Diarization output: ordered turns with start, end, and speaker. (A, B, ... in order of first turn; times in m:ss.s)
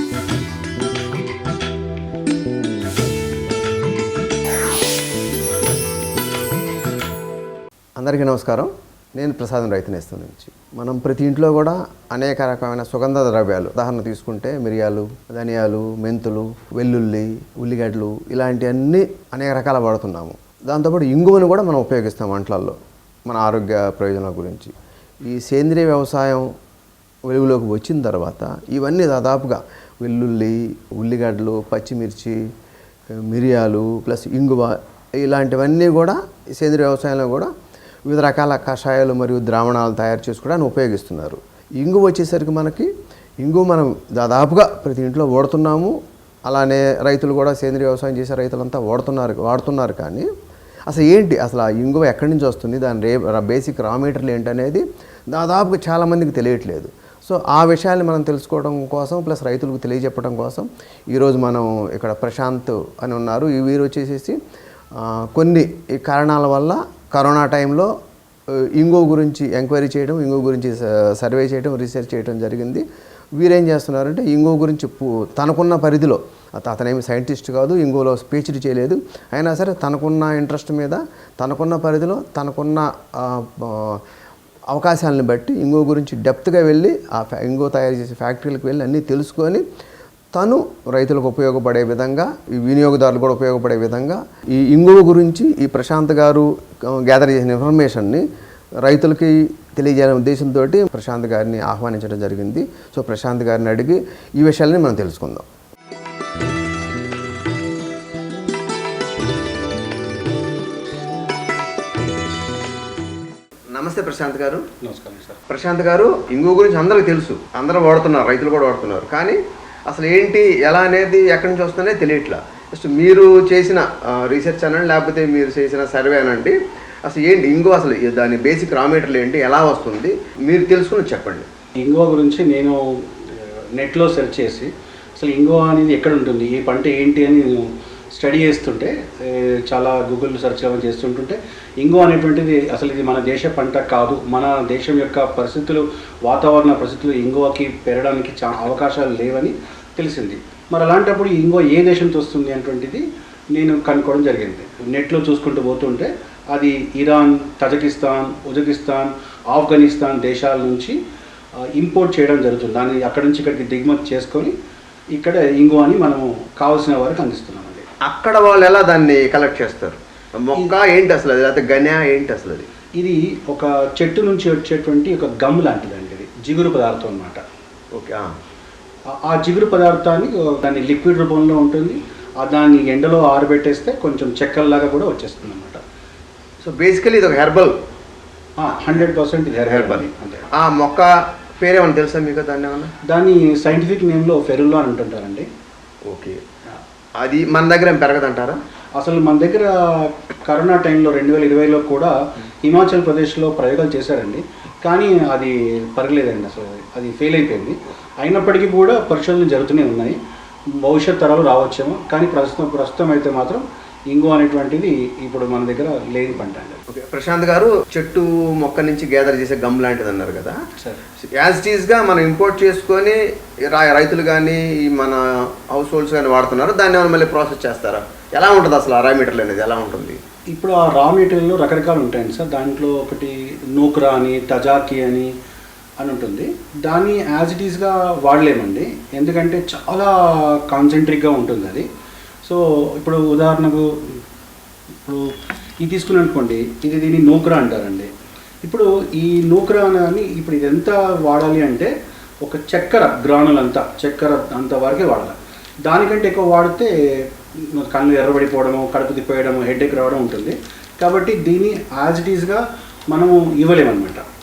0:08.0-0:24.7 A
0:25.3-0:26.5 A
0:27.3-0:32.4 A
0:33.1-0:37.5 A
0:38.0-0:42.9 A
0:43.4-0:45.9 A
0:46.5-0:50.3 A
0:50.9-1:04.4 A
1:05.0-1:07.9 A
1:08.5-1:12.8 A
1:13.4-1:24.0 A
1:24.7-1:29.6 A
1:30.3-1:38.2 A
1:38.8-1:45.4 A
1:53.7-1:54.6 A
1:54.8-1:55.4 B
1:55.5-2:11.5 A
2:11.8-2:33.0 B
2:33.5-2:40.9 B
2:41.8-2:44.5 B
2:45.1-2:47.8 B
2:48.0-2:52.7 A
2:53.0-2:57.4 B
2:57.9-2:58.3 A
2:59.1-3:05.8 B
3:06.6-3:07.7 A
3:08.6-3:10.5 B
3:09.6-3:12.9 A
3:13.1-3:15.5 B
3:16.0-3:16.4 A
3:17.2-3:18.6 A
3:19.0-3:30.2 B
3:30.8-3:36.8 B
3:36.9-3:40.6 A
3:41.4-3:50.2 A
3:50.5-3:55.3 B
3:56.0-4:01.9 B
4:02.4-4:04.2 B
4:05.0-4:08.1 B
4:08.6-4:11.9 B
4:12.4-4:16.9 B
4:17.6-4:24.2 B